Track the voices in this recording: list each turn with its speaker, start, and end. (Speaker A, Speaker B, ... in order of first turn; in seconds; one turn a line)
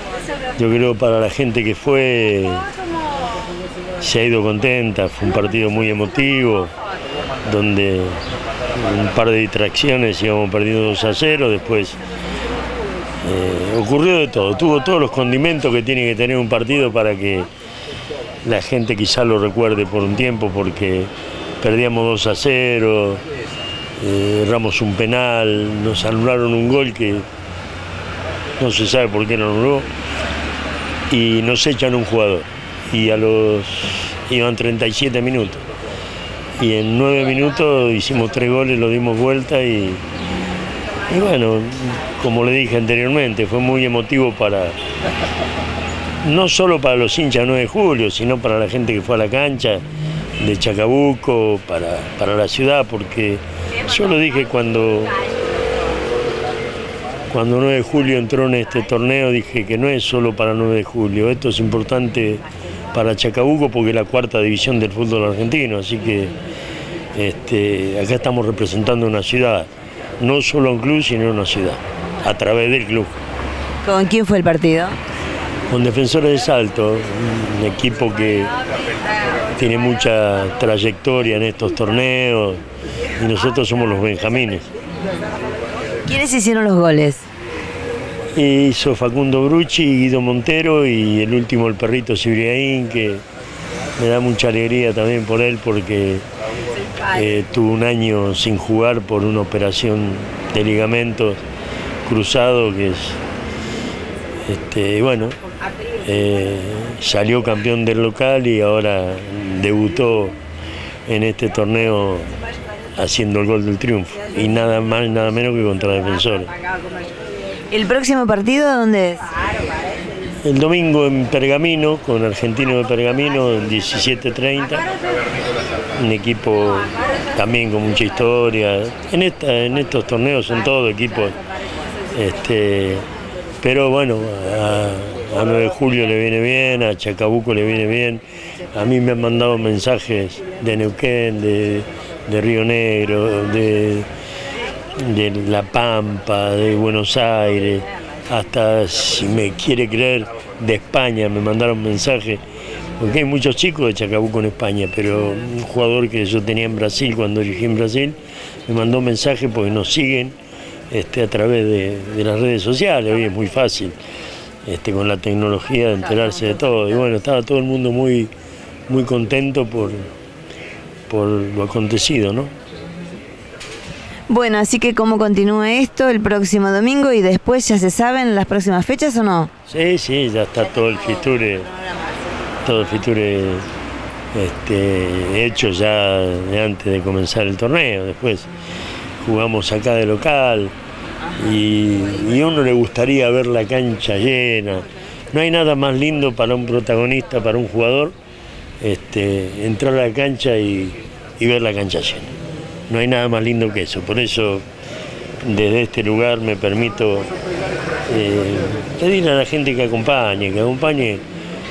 Speaker A: 0.6-2.7
Speaker A: 4.0-6.7
Speaker A: 7.4-12.0
Speaker A: 13.2-17.5
Speaker A: 18.4-23.2
Speaker A: 24.0-27.3
Speaker A: 28.6-29.9
Speaker A: 31.1-35.6
Speaker A: 36.6-40.0
Speaker A: 41.1-44.8
Speaker A: 46.2-49.8
Speaker A: 50.4-55.2
Speaker A: 57.3-66.3
Speaker A: 67.1-73.2
Speaker B: 73.8-75.0
Speaker A: 75.7-78.5
Speaker A: 79.5-82.6
Speaker A: 83.2-84.7
Speaker B: 86.1-87.2
Speaker A: 88.3-93.2
Speaker A: 94.0-96.2
Speaker A: 97.0-101.4
Speaker A: 102.0-103.2
Speaker A: 104.4-105.4
Speaker A: 105.9-110.4
Speaker A: 111.1-112.3
Speaker A: 113.0-116.5
Speaker B: 117.7-119.3
Speaker A: 120.4-124.9
Speaker A: 126.0-131.4
Speaker A: 132.1-133.1
Speaker A: 133.6-144.1
Speaker A: 144.9-152.4
Speaker A: 153.0-160.3
Speaker A: 160.9-164.0
Speaker A: 164.6-168.3
Speaker A: 168.9-170.1
Speaker A: 171.1-172.5
Speaker B: 174.3-179.5
Speaker A: 179.7-181.7
Speaker A: 182.6-183.7
Speaker A: 184.3-188.5
Speaker A: 189.2-190.7
Speaker A: 191.3-198.1
Speaker A: 198.8-202.3
Speaker A: 202.9-204.7
Speaker A: 205.4-207.3
Speaker A: 208.1-211.2